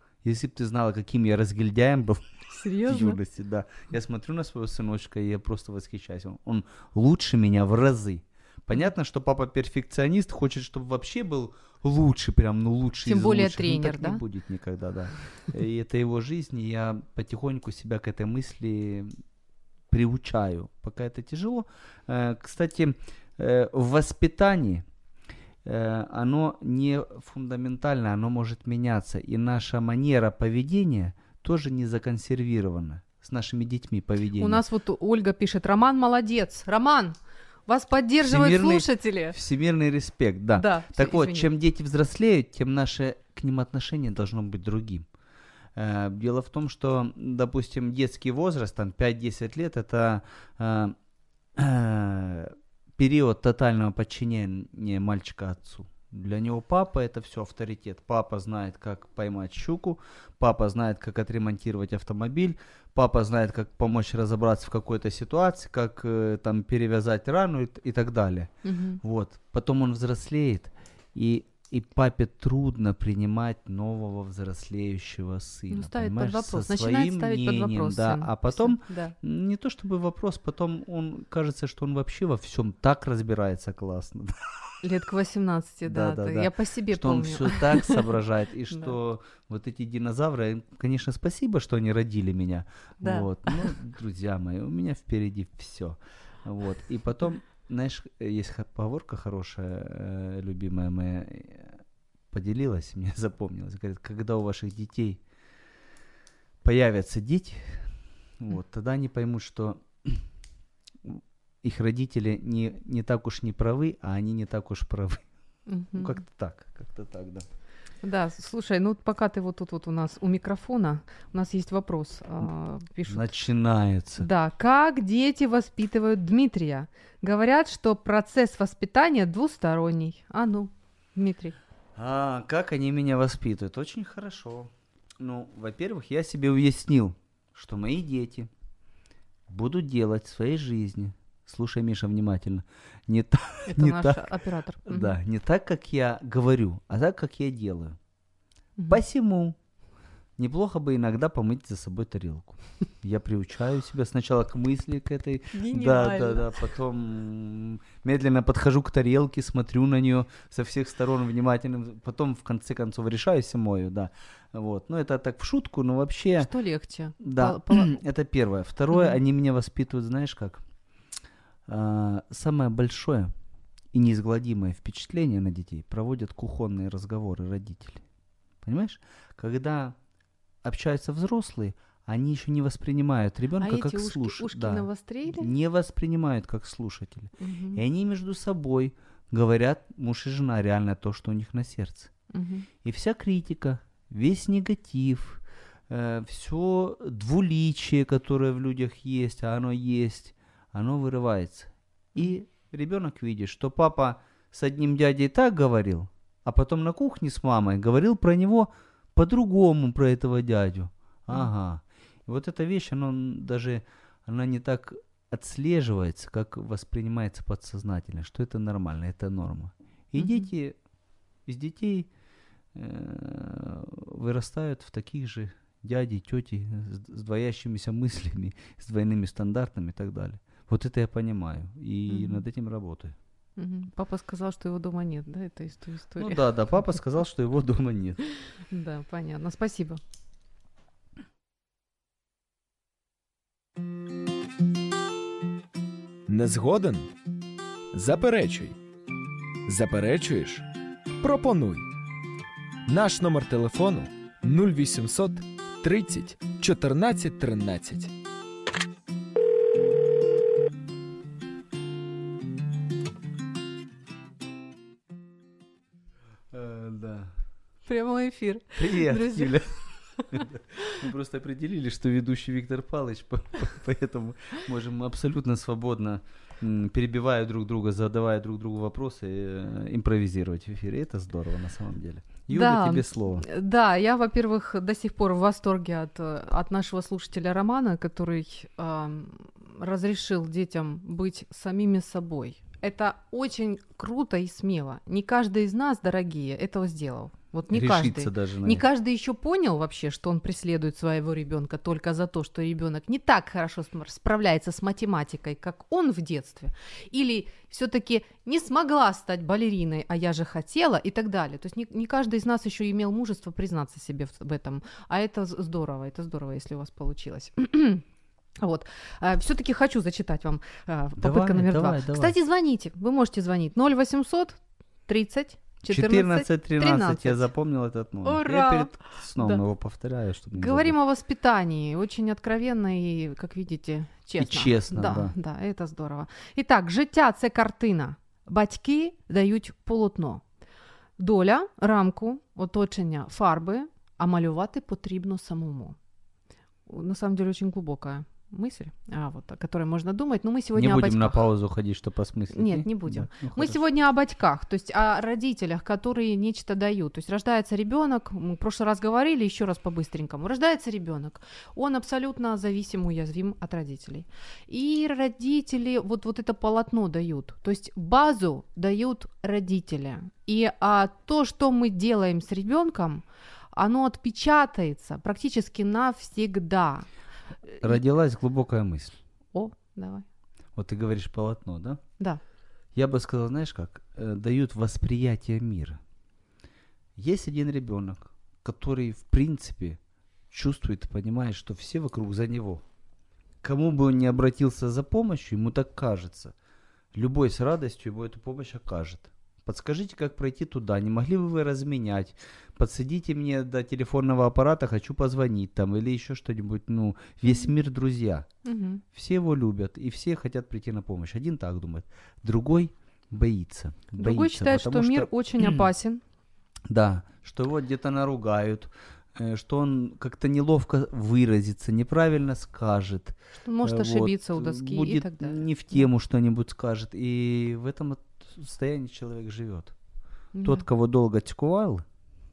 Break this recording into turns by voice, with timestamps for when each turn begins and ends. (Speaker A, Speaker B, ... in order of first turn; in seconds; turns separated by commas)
Speaker A: 0.2-2.2, Speaker B: 2.5-3.2, Speaker A: 2.8-19.1, Speaker B: 13.1-14.2, Speaker A: 19.9-24.9, Speaker A: 25.6-34.6, Speaker B: 34.4-37.1, Speaker B: 37.7-39.4, Speaker A: 38.2-45.1, Speaker B: 40.6-41.5, Speaker A: 45.8-51.0, Speaker A: 51.6-84.4, Speaker B: 68.6-69.0, Speaker B: 75.7-79.1, Speaker B: 84.8-88.1, Speaker A: 85.9-101.8, Speaker B: 93.0-93.7, Speaker A: 102.3-105.2, Speaker A: 106.6-107.9, Speaker A: 108.4-110.2, Speaker A: 111.0-115.2, Speaker B: 115.7-116.2, Speaker A: 115.9-117.5, Speaker B: 118.0-123.3, Speaker A: 123.1-124.2, Speaker B: 124.2-131.6, Speaker A: 131.9-138.5, Speaker A: 139.5-144.3, Speaker B: 143.7-145.2, Speaker A: 144.9-148.0, Speaker B: 148.8-149.0, Speaker A: 148.9-149.6, Speaker A: 150.4-166.5, Speaker B: 155.5-156.5, Speaker B: 166.4-168.0, Speaker A: 167.2-170.6, Speaker B: 168.9-169.2, Speaker A: 171.7-173.3, Speaker A: 173.9-178.0, Speaker A: 178.6-179.9, Speaker A: 180.6-192.1, Speaker B: 183.6-185.5, Speaker B: 187.4-187.8, Speaker B: 192.3-192.7, Speaker A: 192.8-220.8, Speaker B: 220.2-220.5, Speaker A: 221.4-222.1, Speaker A: 222.7-233.2, Speaker B: 232.1-232.4, Speaker B: 233.6-236.4, Speaker A: 236.2-238.2, Speaker B: 238.7-240.0, Speaker C: 246.3-247.1, Speaker C: 247.9-248.8, Speaker C: 249.7-250.7, Speaker C: 251.2-251.9, Speaker C: 252.9-258.1, Speaker A: 266.5-267.3, Speaker B: 267.9-269.6, Speaker A: 268.8-269.7, Speaker A: 270.3-283.4, Speaker B: 282.5-318.0, Speaker A: 297.7-298.8, Speaker B: 318.6-327.5, Speaker A: 321.2-322.4, Speaker A: 325.9-330.9, Speaker B: 328.2-329.6, Speaker B: 330.5-340.4, Speaker A: 334.4-335.3, Speaker B: 341.2-345.9, Speaker B: 346.9-351.4, Speaker A: 350.7-353.8, Speaker B: 352.5-377.1, Speaker A: 377.8-379.2, Speaker B: 379.5-380.2, Speaker A: 380.8-382.0, Speaker A: 382.9-386.0, Speaker A: 387.1-390.0, Speaker A: 390.5-392.8, Speaker A: 393.6-396.5, Speaker A: 397.1-408.5, Speaker B: 408.6-409.0, Speaker A: 409.1-415.9, Speaker B: 414.1-416.2, Speaker A: 416.9-429.9, Speaker B: 423.6-426.1, Speaker B: 430.5-430.8, Speaker A: 430.6-432.0